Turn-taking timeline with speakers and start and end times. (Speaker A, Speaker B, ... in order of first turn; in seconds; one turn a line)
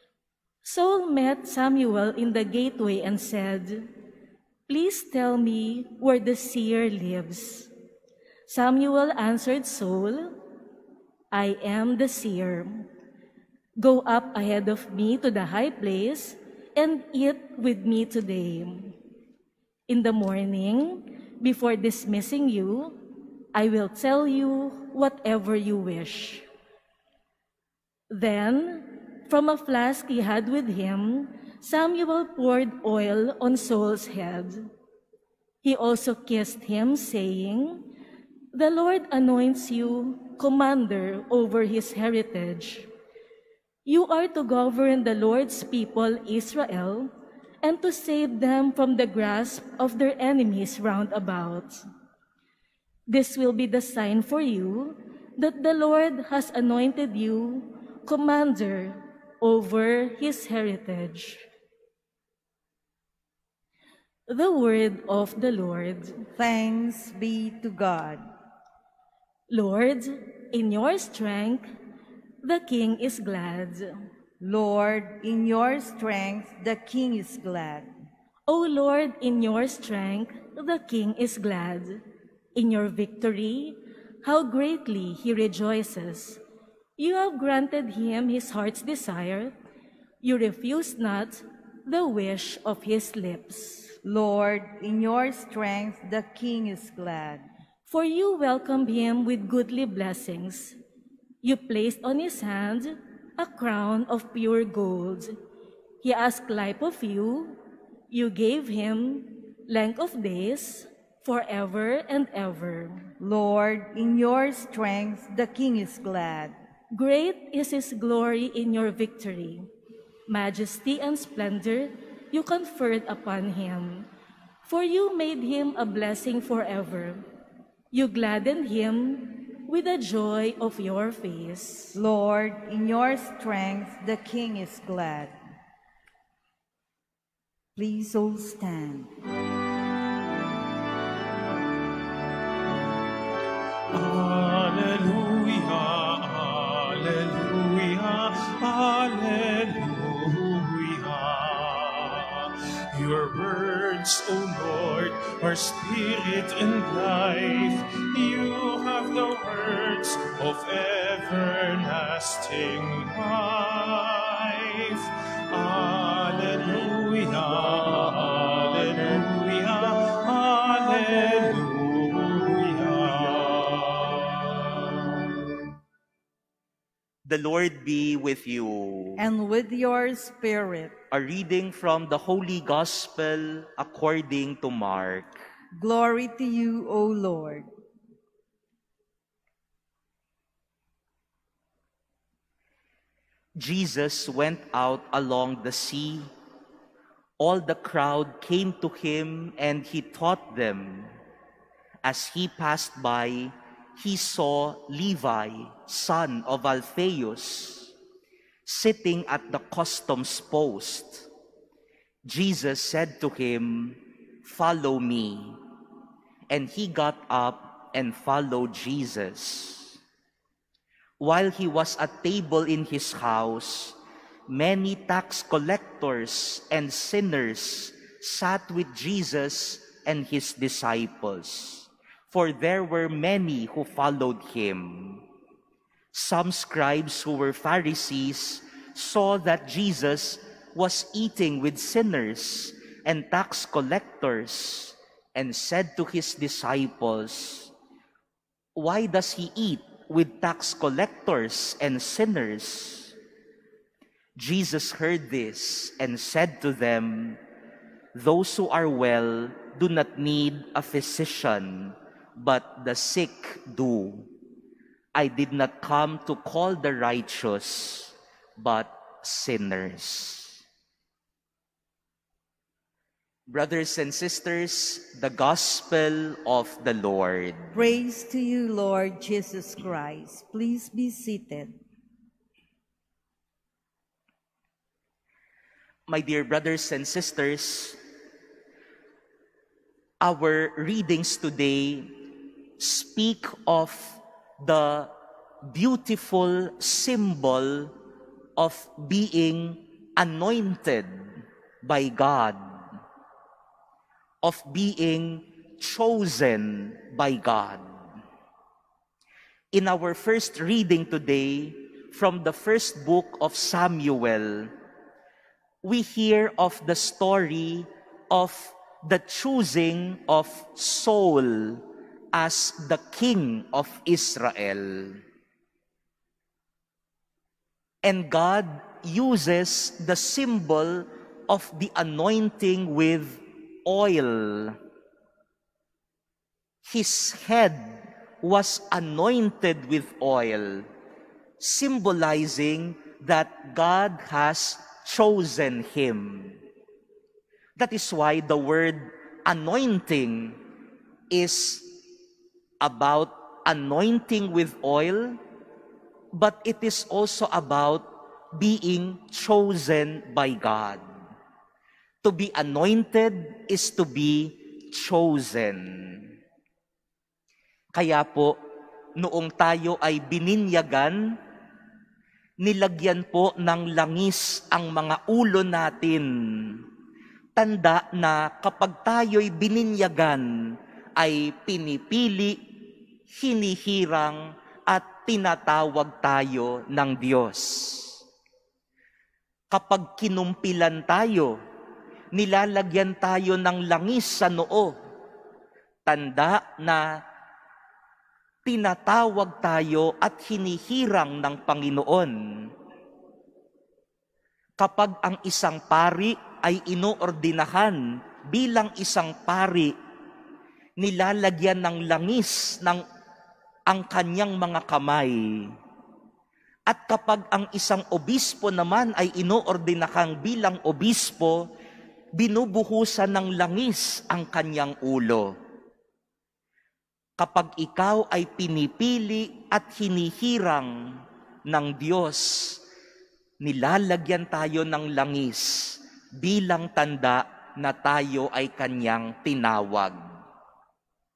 Speaker A: 0.6-3.9
Speaker A: 4.7-7.7
Speaker A: 8.5-10.4
Speaker A: 11.3-12.9
Speaker A: 13.8-18.9
Speaker A: 19.9-23.0
Speaker A: 23.5-26.4
Speaker A: 28.1-34.7
Speaker A: 35.6-37.8
Speaker A: 38.5-42.9
Speaker A: 43.9-47.1
Speaker A: 47.6-51.8
Speaker A: 53.1-61.4
Speaker A: 64.3-66.2
Speaker B: 66.4-68.2
Speaker A: 69.5-71.7
Speaker A: 72.4-73.9
Speaker B: 74.4-77.9
Speaker A: 78.5-82.0
Speaker A: 82.5-86.4
Speaker A: 87.0-89.5
Speaker A: 90.2-94.0
Speaker B: 94.0-97.4
Speaker A: 97.9-100.8
Speaker A: 101.4-105.3
Speaker A: 106.0-107.6
Speaker A: 108.1-113.1
Speaker B: 113.2-116.5
Speaker A: 116.9-119.7
Speaker A: 120.3-124.1
Speaker A: 124.6-127.2
Speaker A: 127.9-132.0
Speaker B: 131.9-135.3
Speaker B: 137.8-139.1
Speaker C: 143.9-174.6
Speaker D: 177.2-179.2
Speaker B: 179.2-180.9
Speaker D: 181.1-185.4
Speaker B: 185.7-187.7
Speaker D: 193.6-196.3
Speaker D: 197.4-201.1
Speaker D: 202.0-207.9
Speaker D: 208.7-211.3
Speaker D: 212.2-215.6
Speaker D: 216.5-220.0
Speaker D: 221.2-224.0
Speaker D: 224.5-235.2
Speaker D: 236.1-247.7
Speaker D: 248.7-253.2
Speaker D: 254.3-257.4
Speaker D: 258.1-264.3
Speaker D: 265.1-270.6
Speaker D: 273.5-277.7
Speaker B: 277.7-281.7
Speaker D: 286.1-288.0
Speaker D: 290.2-295.1
Speaker D: 295.7-297.9
Speaker D: 298.6-302.6
Speaker D: 304.4-307.8
Speaker D: 309.7-314.7
Speaker D: 315.8-325.2
Speaker D: 328.0-334.8
Speaker D: 336.8-340.9
Speaker D: 341.6-346.6
Speaker D: 347.8-350.6
Speaker D: 351.3-352.0
Speaker D: 352.8-355.4
Speaker D: 356.3-361.0
Speaker D: 362.2-366.3
Speaker D: 367.9-368.6
Speaker D: 369.2-371.2
Speaker D: 372.6-376.8
Speaker D: 377.6-388.2
Speaker D: 389.7-391.6
Speaker D: 392.3-394.9
Speaker D: 396.1-397.0
Speaker D: 398.6-402.7
Speaker D: 404.8-409.9
Speaker D: 411.0-413.0
Speaker D: 413.9-415.7
Speaker D: 416.9-421.7
Speaker D: 422.4-425.5
Speaker D: 427.4-430.9
Speaker D: 431.6-432.8
Speaker D: 433.6-440.2